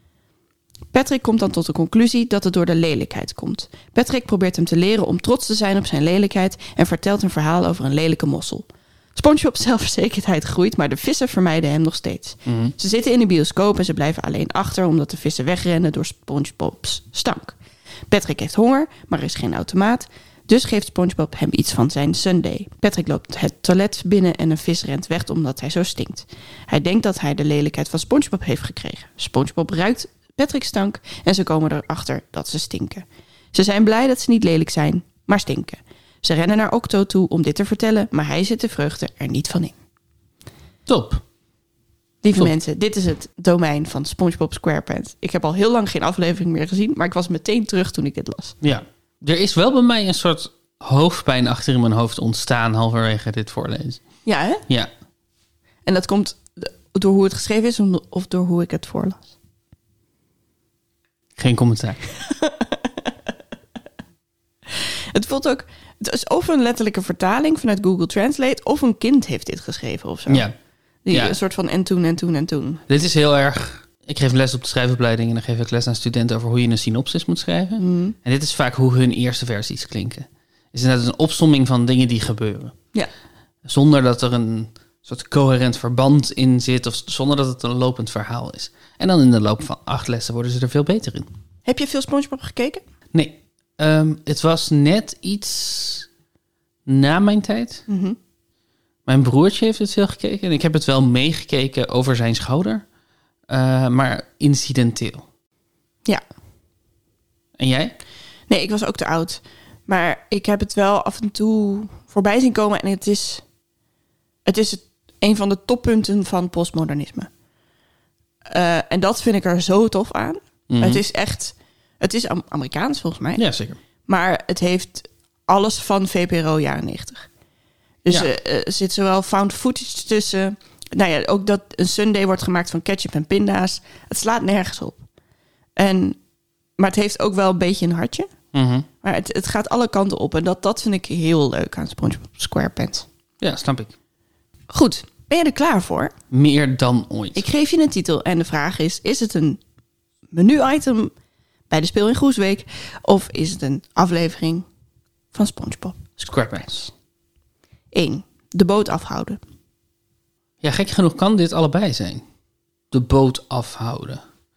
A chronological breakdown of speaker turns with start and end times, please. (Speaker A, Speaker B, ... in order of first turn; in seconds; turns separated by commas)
Speaker A: 0.9-17.6, Speaker B: 12.4-12.7, Speaker A: 18.1-39.8, Speaker B: 40.9-41.2, Speaker A: 42.2-48.5, Speaker B: 48.6-54.0, Speaker A: 54.2-54.6, Speaker A: 55.8-59.3, Speaker B: 61.4-62.0, Speaker A: 62.2-63.1, Speaker A: 64.7-70.5, Speaker B: 70.3-70.5, Speaker A: 71.0-72.8, Speaker B: 71.1-71.4, Speaker B: 72.9-82.8, Speaker A: 77.8-78.2, Speaker B: 83.6-91.3, Speaker A: 91.6-92.8, Speaker B: 93.1-96.1, Speaker B: 96.9-97.8, Speaker A: 97.9-98.2, Speaker B: 99.0-102.8, Speaker B: 103.5-105.2, Speaker B: 107.6-107.9, Speaker A: 108.5-113.4, Speaker A: 114.5-117.3, Speaker A: 118.5-123.4, Speaker B: 120.7-121.0, Speaker B: 123.3-123.8, Speaker A: 124.1-127.3, Speaker A: 128.0-135.0, Speaker A: 135.8-136.2, Speaker A: 136.8-138.3, Speaker B: 138.5-138.9, Speaker A: 139.0-143.1, Speaker B: 143.4-143.9, Speaker A: 144.7-146.1, Speaker B: 146.3-147.4, Speaker A: 147.3-149.6, Speaker A: 150.3-151.1, Speaker A: 151.7-154.7, Speaker A: 155.3-156.2, Speaker B: 156.2-156.9, Speaker A: 157.9-159.4, Speaker B: 160.6-162.2, Speaker B: 162.9-164.2